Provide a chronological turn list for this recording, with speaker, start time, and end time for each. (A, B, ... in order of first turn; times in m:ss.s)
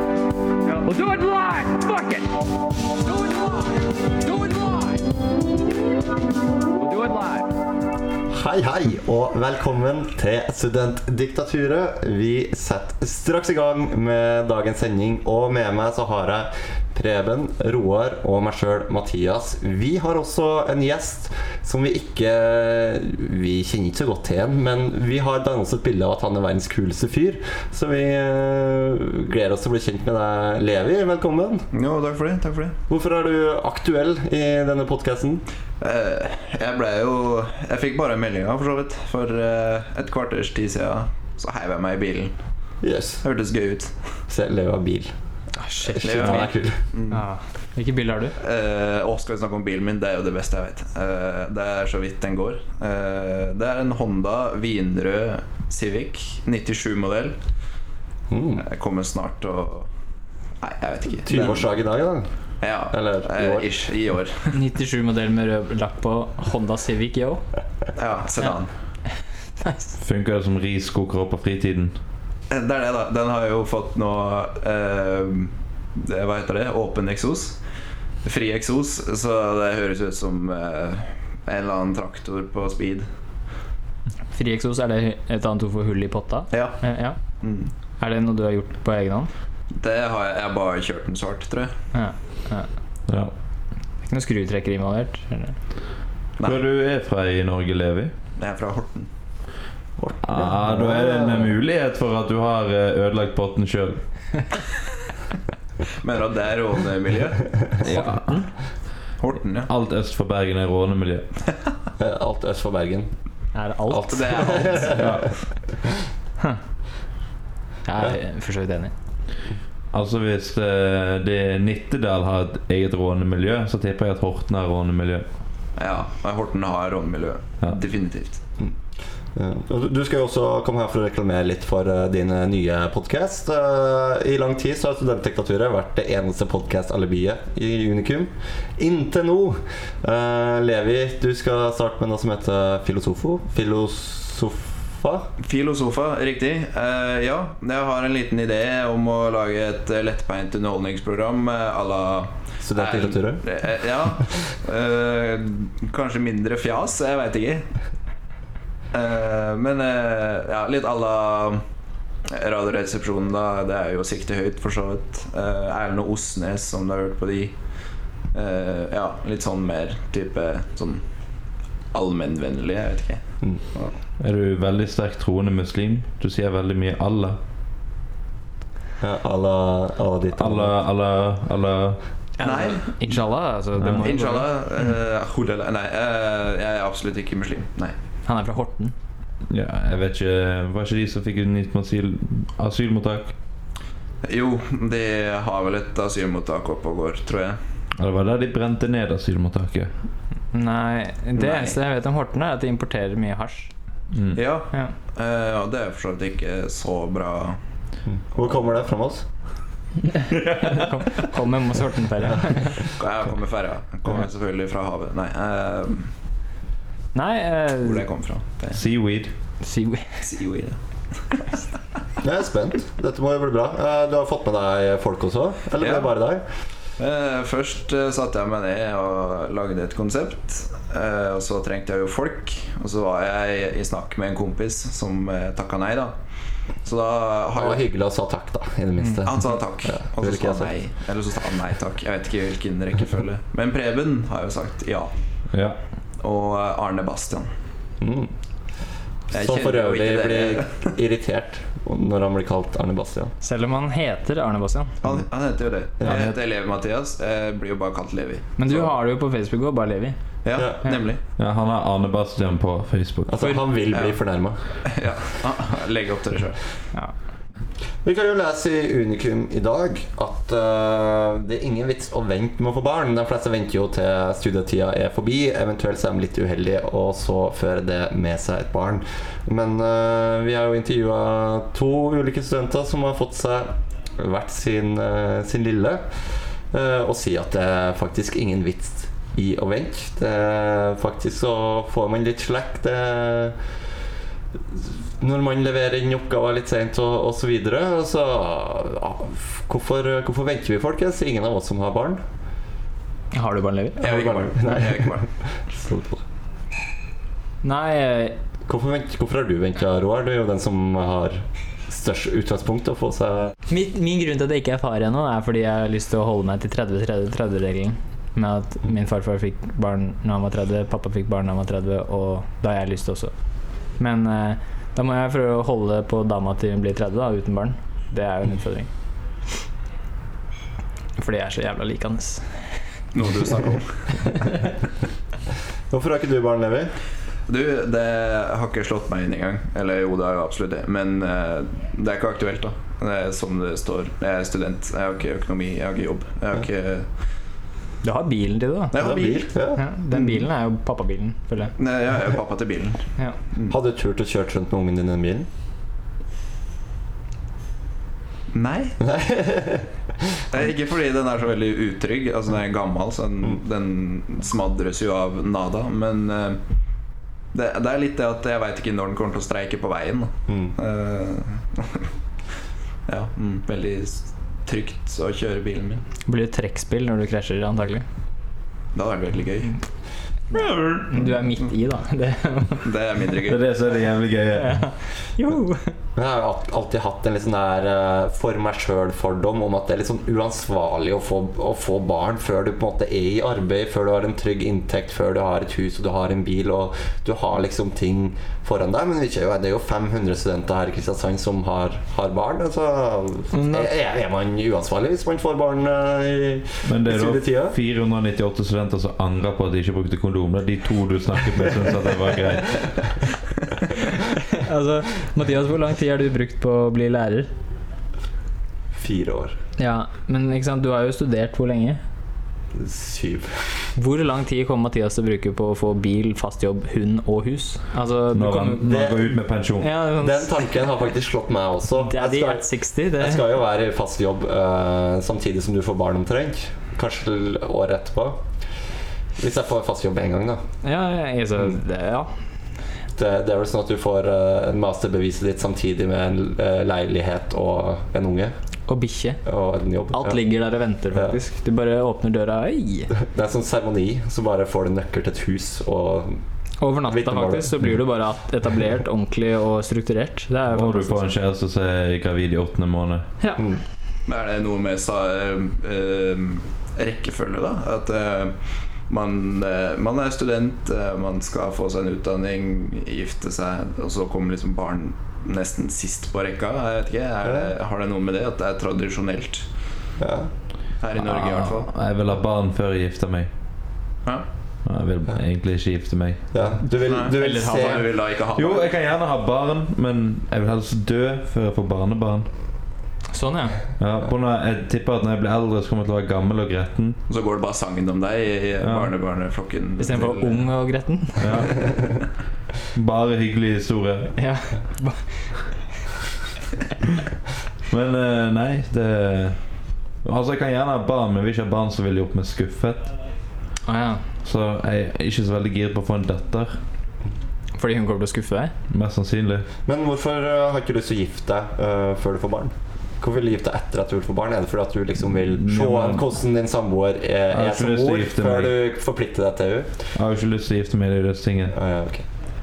0:00.7-0:05.0 A
0:06.8-0:07.5 A
0:08.3-0:31.6 B
0:31.7-0:32.8 C
0:32.9-0:35.4 B
0:35.8-0:42.3 C
0:42.8-0:43.2 B
0:43.2-0:43.9 C
0:44.3-0:45.1 B
0:45.6-0:46.5 D
0:45.8-0:46.8 B
0:46.0-0:47.2 C
0:47.1-0:48.3 D
0:48.4-0:57.4 C
0:58.3-0:58.6 B
0:58.6-0:59.9 C
1:00.6-1:01.7 C
1:01.2-1:02.3 B
1:02.6-1:04.5 C
1:02.9-1:03.7 B
1:04.5-1:07.4 D
1:08.0-1:08.7 C
1:09.6-1:10.0 D
1:10.0-1:11.9 E
1:12.5-1:17.6 C
1:18.2-1:23.1 C
1:24.3-1:27.2 D
1:26.5-1:26.8 C
1:27.4-1:27.7 C
1:28.0-1:29.3 D
1:29.7-1:31.7 C
1:31.9-1:32.7 D
1:34.1-1:35.6 D
1:36.4-1:38.1 E
1:38.4-1:39.1 C
1:40.0-1:41.5 B
1:40.2-1:44.0 E
1:46.0-1:47.5 C
1:47.8-1:48.4 E
1:47.8-1:48.5 D
1:49.2-1:49.7 C
1:49.6-1:51.3 E
1:52.0-1:53.1 B
1:53.5-1:54.9 D
1:53.9-1:55.3 B
1:54.1-1:55.1 C
1:55.0-1:55.3 E
1:57.8-1:58.9 D
1:59.9-2:05.2 E
2:05.8-2:08.4 C
2:09.3-2:25.3 B
2:25.4-2:37.7 C
2:32.6-2:33.4 B
2:38.9-2:41.6 C
2:42.3-2:47.5 C
2:48.3-2:51.0 C
2:51.9-2:53.2 C
2:54.2-2:57.4 E
2:59.0-3:00.8 B
3:00.4-3:02.0 E
3:02.4-3:04.5 D
3:02.4-3:02.8 C
3:03.8-3:04.1 E
3:04.0-3:07.9 C
3:08.2-3:08.9 D
3:09.5-3:13.3 E
3:14.2-3:17.6 C
3:18.0-3:19.9 E
3:20.5-3:23.7 D
3:21.4-3:21.8 C
3:24.1-3:24.4 E
3:24.3-3:27.6 C
3:28.0-3:29.2 B
3:30.1-3:32.8 D
3:30.3-3:30.9 E
3:32.7-3:36.1 C
3:37.1-3:38.0 D
3:37.8-3:38.8 C
3:38.7-3:39.3 E
3:39.6-3:40.2 D
3:40.2-3:41.4 C
3:42.2-3:46.4 B
3:45.8-3:46.1 C
3:47.0-3:56.1 C
3:56.8-3:57.8 C
3:57.5-4:00.7 B
3:59.2-4:05.1 C
4:05.5-4:05.8 E
4:06.2-4:07.5 C
4:08.0-4:08.3 B
4:09.3-4:13.3 B
4:09.3-4:10.9 C
4:13.4-4:14.9 D
4:15.0-4:18.8 C
4:16.0-4:16.4 E
4:18.6-4:20.2 D
4:20.4-4:21.2 C
4:20.5-4:20.8 B
4:21.4-4:23.5 E
4:23.3-4:24.6 B
4:23.9-4:24.2 C
4:24.8-4:26.6 C
4:28.0-4:46.0 B
4:46.7-4:53.6 B
4:54.7-5:02.2 B
5:03.3-5:04.0 D
5:04.0-5:05.3 C
5:04.0-5:06.2 B
5:07.6-5:08.4 D
5:08.7-5:13.5 B
5:13.7-5:23.3 D
5:24.0-5:28.9 D
5:31.2-5:32.7 D
5:33.1-5:34.0 C
5:35.9-5:36.9 B
5:37.5-5:47.1 C
5:48.0-5:49.0 D
5:48.9-5:49.5 C
5:49.0-5:49.8 B
5:49.7-5:51.7 D
5:51.8-5:53.7 C
5:53.7-5:55.5 B
5:58.5-5:59.0 C
5:59.0-5:59.9 B
6:00.5-6:06.6 C
6:07.5-6:12.0 C
6:10.5-6:10.7 B
6:13.1-6:16.0 C
6:16.2-6:18.0 D
6:18.9-6:19.7 C
6:20.5-6:22.9 D
6:20.8-6:21.0 E
6:22.8-6:23.6 C
6:23.4-6:24.9 E
6:24.5-6:25.9 D
6:26.2-6:47.8 B
6:43.5-6:43.9 D
6:46.8-6:52.9 E
6:54.4-6:57.5 D
6:58.9-6:59.6 B
6:59.8-7:02.0 D
7:02.7-7:03.7 B
7:04.0-7:09.1 D
7:08.3-7:09.9 E
7:08.8-7:09.3 B
7:09.8-7:10.7 D
7:10.2-7:18.4 B
7:12.0-7:13.5 D
7:19.4-7:20.6 B
7:20.8-7:22.3 D
7:23.2-7:28.5 B
7:28.9-7:29.4 D
7:29.4-7:30.4 B
7:30.1-7:33.1 D
7:33.1-7:36.4 B
7:36.8-7:41.3 D
7:37.0-7:37.8 B
7:40.7-7:43.3 E
7:44.2-7:48.5 C
7:49.1-7:59.7 C
7:57.4-7:57.7 B
8:00.2-8:00.5 B
8:01.0-8:01.9 C
8:01.2-8:03.5 E
8:04.8-8:06.4 E
8:06.5-8:08.1 B
8:07.0-8:08.9 C
8:07.4-8:08.0 D
8:08.6-8:12.5 E
8:13.3-8:13.8 D
8:14.0-8:17.2 E
8:17.3-8:20.6 C
8:18.8-8:19.1 E
8:20.0-8:21.7 D
8:21.4-8:22.2 E
8:22.9-8:24.3 E
8:24.4-8:25.2 D
8:27.9-8:29.6 E
8:30.2-8:33.0 E
8:33.8-8:34.2 D
8:34.4-8:36.8 E
8:37.7-8:38.7 D
8:38.9-8:39.7 E
8:39.8-8:50.0 B
8:45.5-8:46.2 E
8:47.5-8:48.8 E
8:50.1-8:51.7 E
8:51.7-8:52.3 B